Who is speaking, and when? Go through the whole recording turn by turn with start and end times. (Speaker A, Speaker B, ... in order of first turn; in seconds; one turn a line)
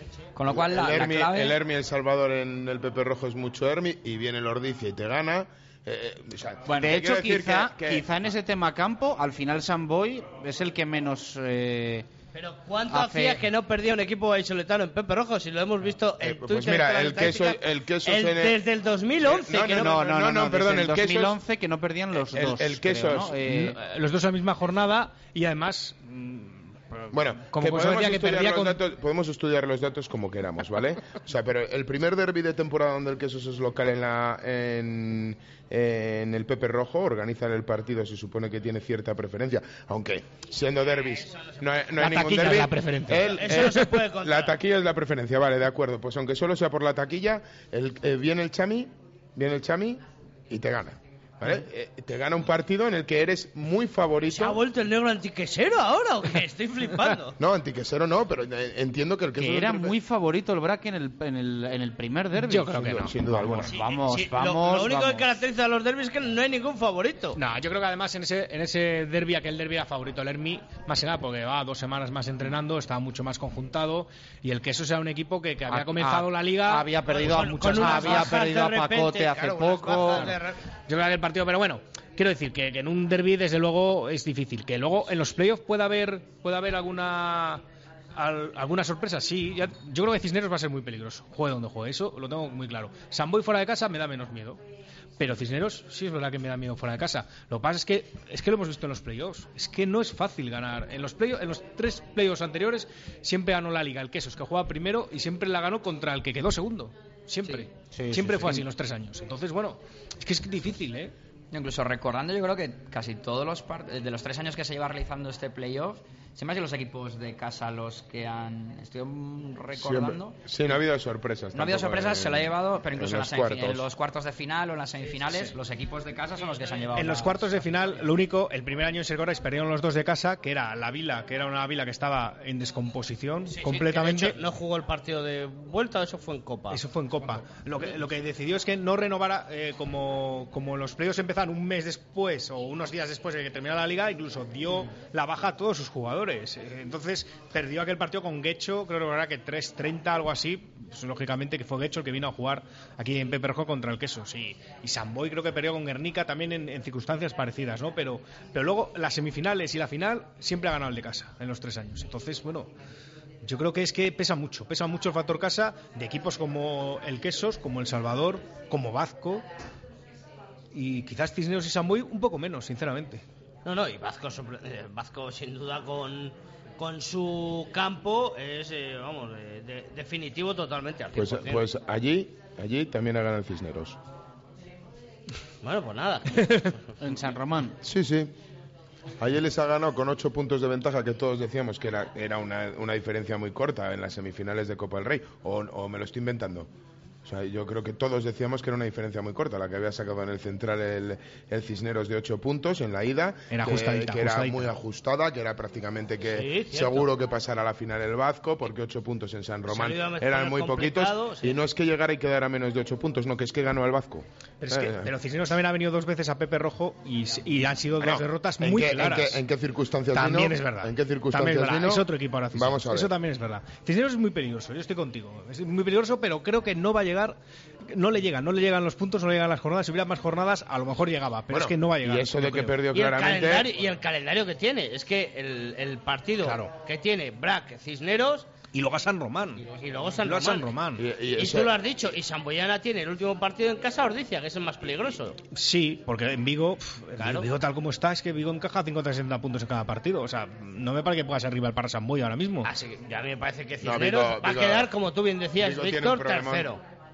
Speaker A: 0.4-1.6
Speaker B: 0.5-8.1
Speaker C: 6.7-12.1
Speaker D: 12.3-20.0
Speaker C: 12.9-13.4
Speaker B: 16.2-18.6
Speaker B: 19.2-21.4
Speaker C: 19.7-23.8
Speaker B: 22.1-23.4
Speaker E: 23.4-28.8
Speaker B: 27.1-54.6
Speaker D: 41.1-41.6
Speaker C: 42.0-43.2
Speaker E: 42.5-42.9
Speaker D: 43.2-44.6
Speaker D: 54.3-57.4
Speaker B: 57.4-60.0
Speaker C: 59.4-65.2
Speaker E: 62.4-63.5
Speaker B: 62.7-63.7
Speaker D: 63.7-67.4
Speaker E: 67.3-78.4
Speaker C: 75.7-80.4
Speaker D: 77.1-80.6
Speaker E: 80.9-87.6
Speaker E: 88.1-94.6
Speaker E: 95.2-111.1
Speaker C: 107.9-108.7
Speaker A: 111.5-120.4
Speaker B: 119.8-123.8
Speaker A: 121.5-127.8
Speaker E: 126.9-134.4
Speaker D: 133.6-136.8
Speaker E: 136.7-162.7
Speaker E: 163.4-169.4
Speaker E: 170.7-173.2
Speaker D: 173.6-181.7
Speaker B: 181.1-184.0
Speaker D: 185.6-186.8
Speaker C: 187.0-187.8
Speaker B: 187.8-188.3
Speaker B: 189.2-196.7
Speaker B: 197.2-215.1
Speaker E: 203.5-204.7
Speaker D: 206.3-207.1
Speaker D: 209.7-211.6
Speaker E: 214.6-219.4
Speaker B: 218.0-223.1
Speaker E: 220.1-227.4
Speaker E: 227.9-232.8
Speaker B: 231.5-233.7
Speaker D: 232.9-238.5
Speaker E: 236.4-236.7
Speaker E: 238.7-239.6
Speaker D: 239.6-240.7
Speaker E: 240.2-241.0
Speaker B: 241.0-241.8
Speaker D: 241.3-245.4
Speaker E: 245.5-252.7
Speaker D: 247.2-247.5
Speaker D: 252.6-256.8
Speaker B: 253.8-254.9
Speaker B: 255.6-256.7